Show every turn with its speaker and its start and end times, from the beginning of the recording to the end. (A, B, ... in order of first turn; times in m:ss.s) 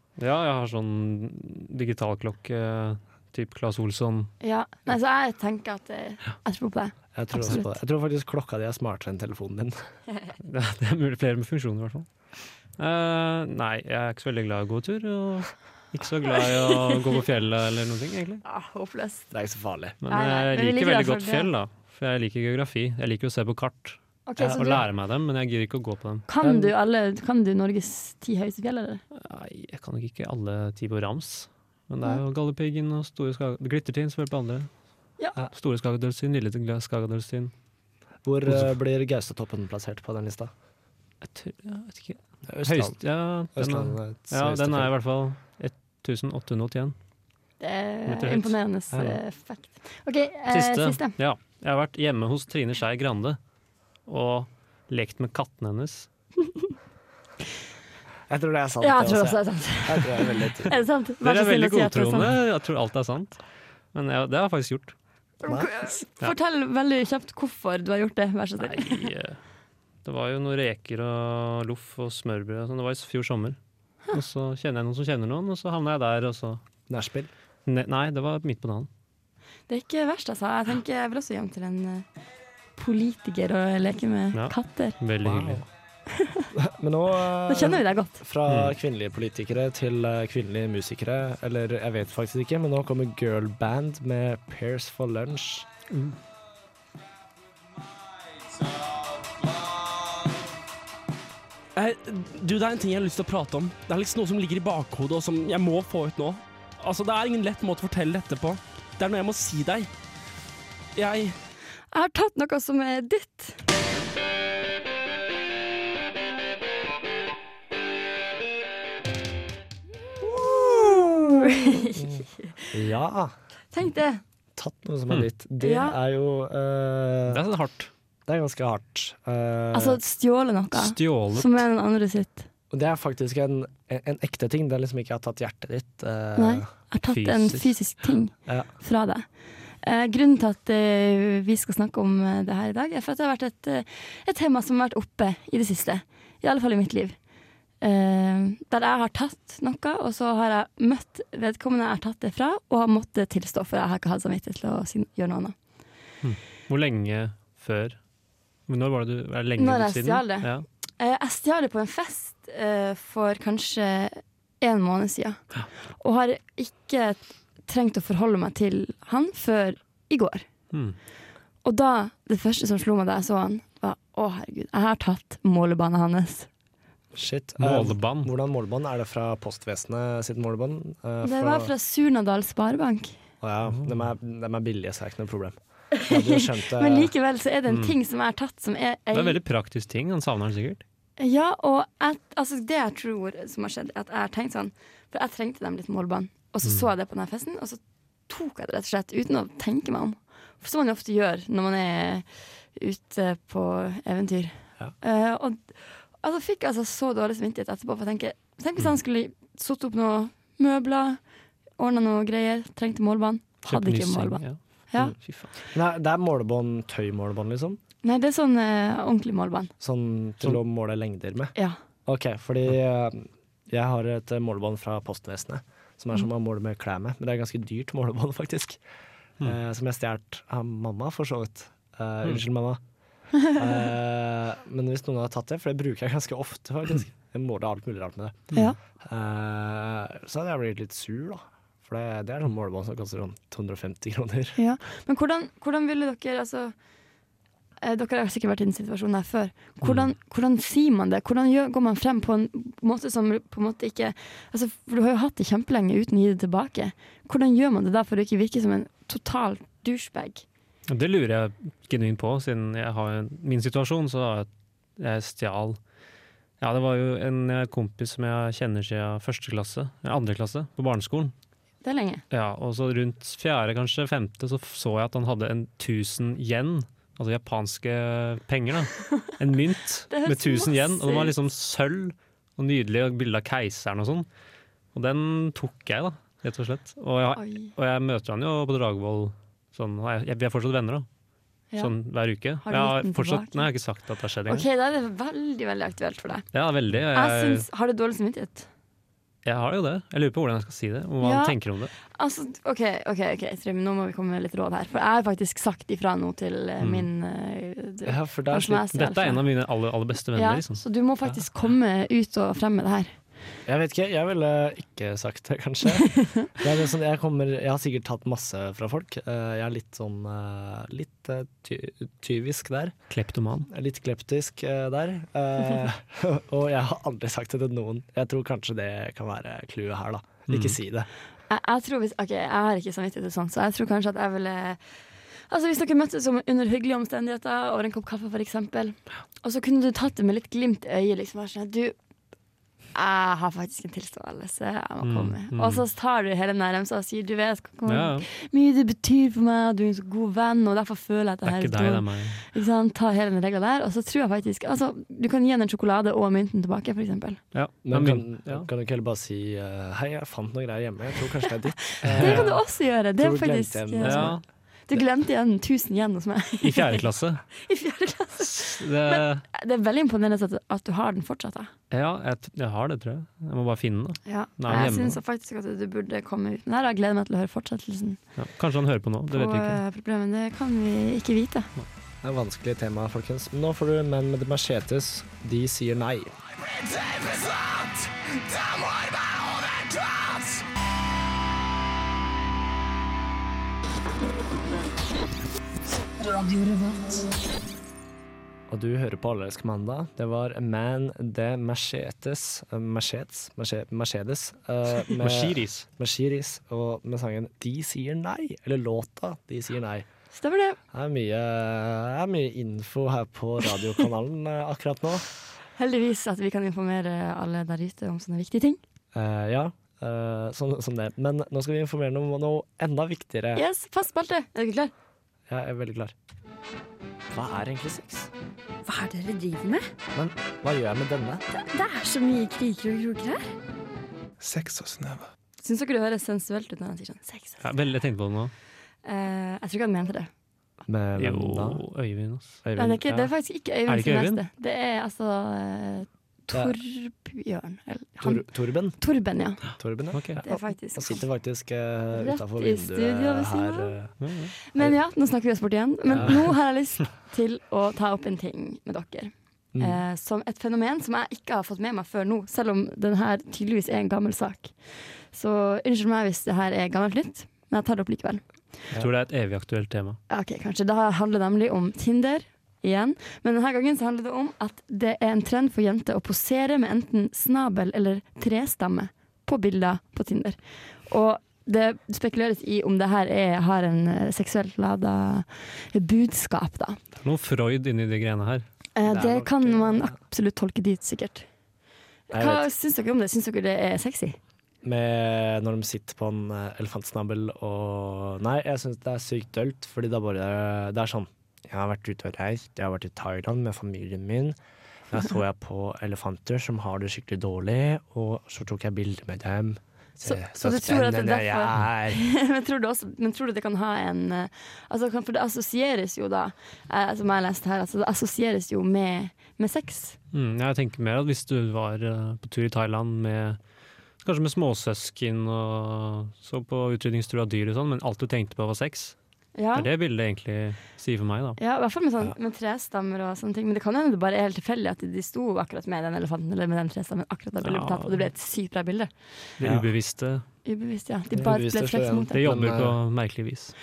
0:00.2-0:04.3 A
0:04.4-0:07.8 B
0:07.1-0:09.8 C
0:10.4-0:18.4 A
0:18.4-0:19.3 B
0:19.3-0:20.0 C
0:20.0-0:26.7 A
0:20.1-0:21.5 B
0:24.3-0:24.8 B
0:26.3-0:29.0 B
0:29.1-0:37.5 A
0:38.2-0:40.5 C
0:38.4-0:38.7 A
0:41.2-0:47.0 A
0:42.4-0:44.9 C
0:47.6-0:51.2 B
0:48.1-0:48.6 A
0:48.9-0:49.2 C
0:50.5-0:53.4 A
0:54.0-0:56.1 A
0:58.3-1:00.8 C
0:58.8-1:02.3 B
1:01.2-1:05.0 A
1:05.4-1:09.1 B
1:05.4-1:06.0 C
1:08.6-1:09.4 A
1:10.0-1:16.6 A
1:16.9-1:17.3 C
1:17.6-1:18.9 A
1:19.7-1:22.1 B
1:22.7-1:25.0 B
1:24.3-1:25.6 A
1:25.2-1:25.7 C
1:26.1-1:26.5 B
1:26.5-1:35.7 C
1:27.5-1:28.2 B
1:28.5-1:28.7 A
1:35.9-1:36.2 A
1:41.7-1:49.9 D
1:50.9-1:51.4 D
1:51.9-1:53.6 B
2:00.2-2:01.4 C
2:01.4-2:02.7 B
2:01.9-2:03.4 C
2:03.7-2:04.2 B
2:04.6-2:07.4 C
2:05.6-2:06.0 B
2:07.3-2:07.9 A
2:08.3-2:10.0 C
2:09.7-2:12.4 B
2:10.7-2:11.6 A
2:12.7-2:16.7 C
2:16.4-2:19.3 B
2:17.0-2:18.0 A
2:19.8-2:27.2 B
2:27.8-2:35.6 B
2:36.2-2:38.0 A
2:38.6-2:40.7 A
2:39.6-2:50.5 B
2:50.7-2:51.0 A
2:51.6-2:56.5 B
2:57.1-3:01.7 C
2:57.6-2:58.3 A
3:01.2-3:03.2 B
3:03.4-3:07.1 C
3:03.7-3:04.0 A
3:06.1-3:09.4 B
3:07.7-3:07.9 A
3:09.1-3:10.8 A
3:11.2-3:31.2 B
3:31.8-3:35.1 B
3:33.6-3:35.5 A
3:35.7-3:37.8 C
3:38.0-3:39.7 B
3:39.8-3:48.8 C
3:49.4-3:52.8 C
3:53.4-4:04.6 C
4:04.6-4:06.7 B
4:07.8-4:20.4 B
4:09.8-4:10.1 A
4:20.9-4:25.8 A
4:26.6-4:31.3 A
4:31.8-4:32.2 B
4:32.3-4:44.3 A
4:40.1-4:41.3 B
4:44.9-4:51.1 A
4:47.3-4:47.7 B
4:51.8-4:54.6 A
4:52.6-4:53.6 B
4:54.5-4:56.4 B
4:56.5-4:57.7 A
4:57.1-4:58.7 B
4:59.4-5:01.9 A
5:01.2-5:09.4 B
5:06.8-5:07.1 A
5:08.0-5:08.8 C
5:08.9-5:10.8 A
5:10.3-5:13.2 B
5:13.6-5:23.0 C
5:23.1-5:23.7 A
5:23.7-5:31.1 C
5:30.5-5:30.8 A
5:31.5-5:41.9 B
5:42.9-5:57.4 B
5:45.0-5:45.8 A
5:47.9-5:48.2 A
5:51.4-5:52.4 A
5:57.5-5:58.7 A
5:57.8-6:04.4 C
6:02.0-6:11.7 B
6:02.0-6:02.6 A
6:04.0-6:04.4 A
6:06.6-6:07.4 A
6:08.4-6:09.4 A
6:11.9-6:15.2 A
6:14.2-6:18.2 B
6:18.4-6:19.8 A
6:19.3-6:21.7 B
6:22.2-6:26.4 C
6:27.1-6:27.8 E
6:29.3-6:30.3 E
6:38.7-6:50.0 C
6:45.1-6:45.9 A
6:50.3-6:50.8 B
6:50.9-6:55.3 C
6:55.8-6:58.8 B
6:59.1-7:03.6 C
7:03.5-7:04.9 B
7:05.5-7:06.1 C
7:07.3-7:08.3 C
7:08.8-7:09.9 B
7:10.1-7:11.4 C
7:11.5-7:13.5 B
7:14.4-7:15.2 E
7:15.6-7:17.9 B
7:17.6-7:18.5 A
7:19.0-7:20.3 B
7:20.9-7:21.8 C
7:21.2-7:22.6 A
7:22.6-7:23.3 C
7:22.8-7:29.8 B
7:23.9-7:24.4 A
7:28.2-7:29.0 C
7:29.8-7:35.0 C
7:30.1-7:30.4 A
7:30.4-7:31.2 B
7:32.1-7:34.0 B
7:34.2-7:34.5 A
7:34.7-7:48.4 B
7:36.0-7:36.6 C
7:39.7-7:40.0 C
7:48.9-7:50.2 A
7:50.3-8:07.0 B
8:07.2-8:08.6 A
8:09.0-8:11.5 B
8:09.0-8:10.2 C
8:12.3-8:14.4 B
8:12.3-8:12.7 C
8:14.8-8:24.6 C
8:25.1-8:32.2 C
8:30.2-8:40.2 B
8:40.3-8:43.6 A
8:44.2-8:49.2 A
8:49.6-8:49.9 B
8:49.7-8:51.6 A
8:51.6-8:59.3 B
8:57.6-8:58.3 A
8:59.6-9:00.4 A
8:59.6-8:59.9 C
9:00.6-9:02.4 B
9:01.3-9:03.0 C
9:02.3-9:03.7 A